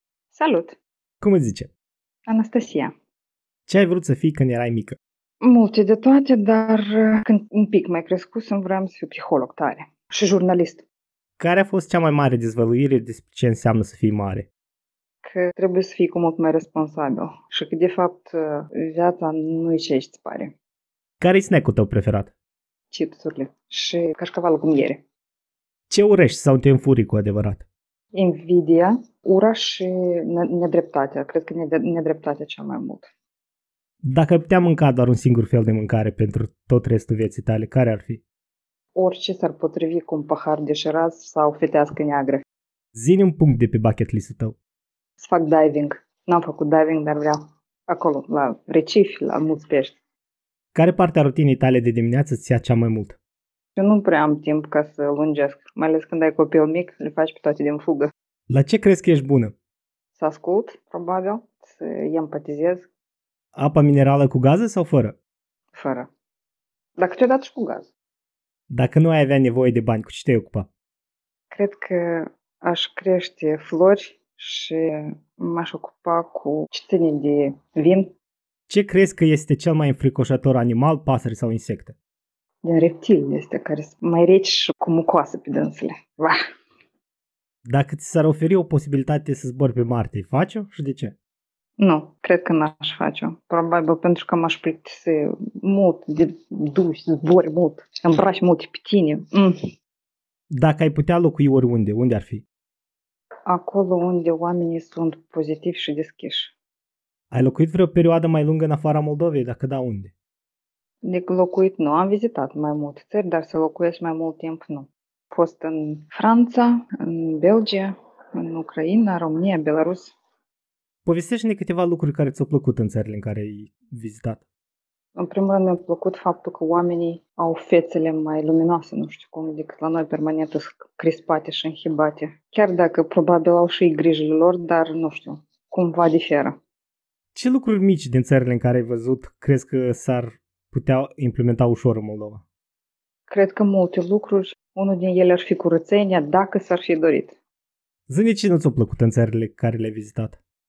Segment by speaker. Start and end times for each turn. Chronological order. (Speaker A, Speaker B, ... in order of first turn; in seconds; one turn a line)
Speaker A: 0.3-0.8
Speaker B: 1.2-1.7
Speaker A: 2.3-2.9
Speaker B: 3.7-5.0
Speaker A: 5.4-10.8
Speaker B: 11.4-14.5
Speaker A: 15.2-20.6
Speaker B: 21.2-22.3
Speaker A: 22.9-25.0
Speaker B: 25.9-27.6
Speaker A: 28.1-33.1
Speaker B: 34.0-38.2
Speaker A: 39.0-42.4
Speaker B: 43.0-44.6
Speaker A: 45.2-50.0
Speaker B: 50.7-53.2
Speaker A: 53.8-58.1
Speaker B: 58.5-59.5
Speaker A: 60.1-62.9
Speaker B: 63.5-65.2
Speaker A: 65.7-66.1
Speaker A: 67.0-67.9
Speaker B: 68.7-70.7
Speaker A: 71.5-78.1
Speaker B: 78.7-82.0
Speaker A: 82.6-86.4
Speaker B: 87.7-91.2
Speaker A: 91.8-99.5
Speaker B: 100.5-102.5
Speaker A: 103.5-106.5
Speaker B: 107.3-110.1
Speaker A: 111.0-120.2
Speaker B: 121.0-124.4
Speaker A: 125.2-136.6
Speaker B: 137.3-142.4
Speaker A: 143.3-147.4
Speaker B: 148.1-150.4